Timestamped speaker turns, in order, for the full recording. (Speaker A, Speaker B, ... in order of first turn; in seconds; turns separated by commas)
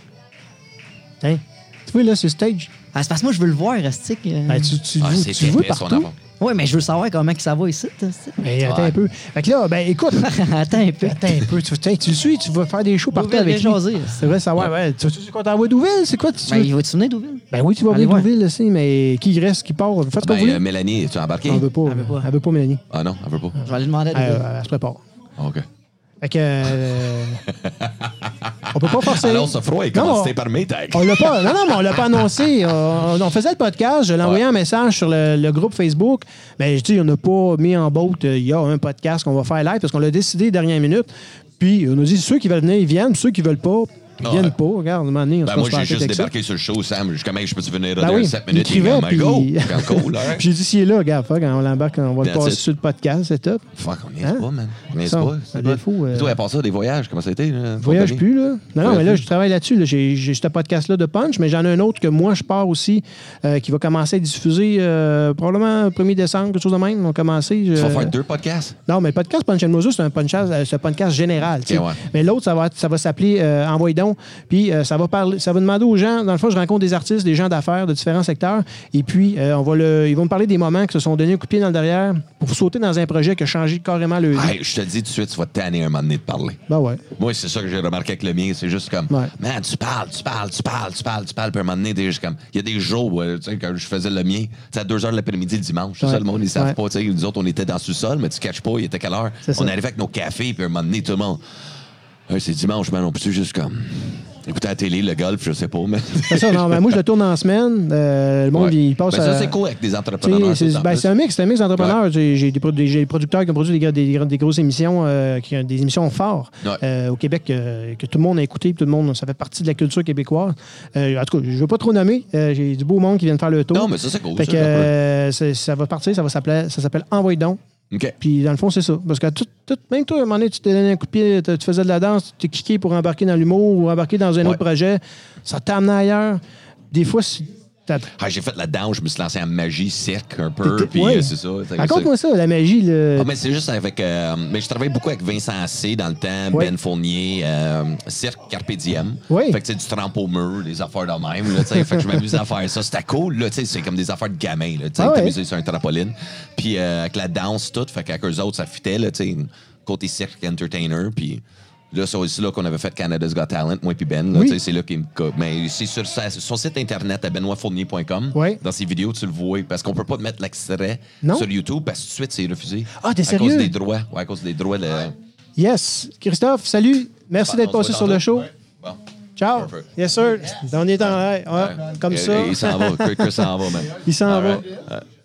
Speaker A: 1.2-2.7, Speaker B: 2.9-4.8, Speaker A: 4.5-6.1, Speaker C: 5.0-6.2, Speaker B: 6.4-8.5, Speaker A: 8.4-10.4, Speaker C: 8.6-8.9, Speaker B: 10.2-11.2, Speaker A: 11.0-16.7, Speaker B: 13.1-14.2, Speaker B: 16.5-18.3, Speaker A: 17.5-20.6, Speaker C: 20.2-21.7, Speaker A: 21.5-22.8, Speaker B: 21.9-22.3, Speaker C: 22.9-23.6, Speaker B: 23.6-24.4, Speaker A: 24.1-25.0, Speaker C: 25.4-25.7, Speaker A: 26.2-27.4, Speaker C: 27.5-32.0, Speaker A: 28.7-30.3, Speaker A: 30.9-46.3, Speaker C: 44.2-44.6, Speaker C: 45.4-50.5, Speaker A: 48.0-53.7, Speaker C: 52.2-52.6, Speaker C: 53.8-58.3, Speaker A: 55.1-56.4, Speaker A: 57.8-68.1, Speaker C: 58.8-59.2, Speaker C: 67.8-68.8, Speaker A: 68.9-84.6, Speaker C: 71.7-72.0, Speaker C: 84.3-86.6, Speaker A: 86.7-87.0, Speaker C: 87.2-101.4, Speaker A: 96.0-96.8, Speaker A: 99.5-99.7, Speaker C: 102.3-107.0, Speaker A: 106.3-109.6, Speaker C: 108.5-111.1, Speaker A: 110.2-127.6, Speaker C: 123.7-124.9, Speaker C: 127.9-128.2, Speaker A: 128.2-138.1, Speaker C: 138.2-142.1, Speaker A: 140.6-143.3, Speaker C: 143.2-175.2, Speaker A: 149.3-149.6, Speaker A: 155.0-155.3, Speaker A: 168.3-168.6, Speaker A: 171.2-171.5, Speaker A: 173.0-173.7, Speaker A: 175.6-178.5, Speaker C: 177.4-178.3, Speaker A: 179.4-184.8, Speaker C: 179.6-179.9, Speaker C: 181.1-185.0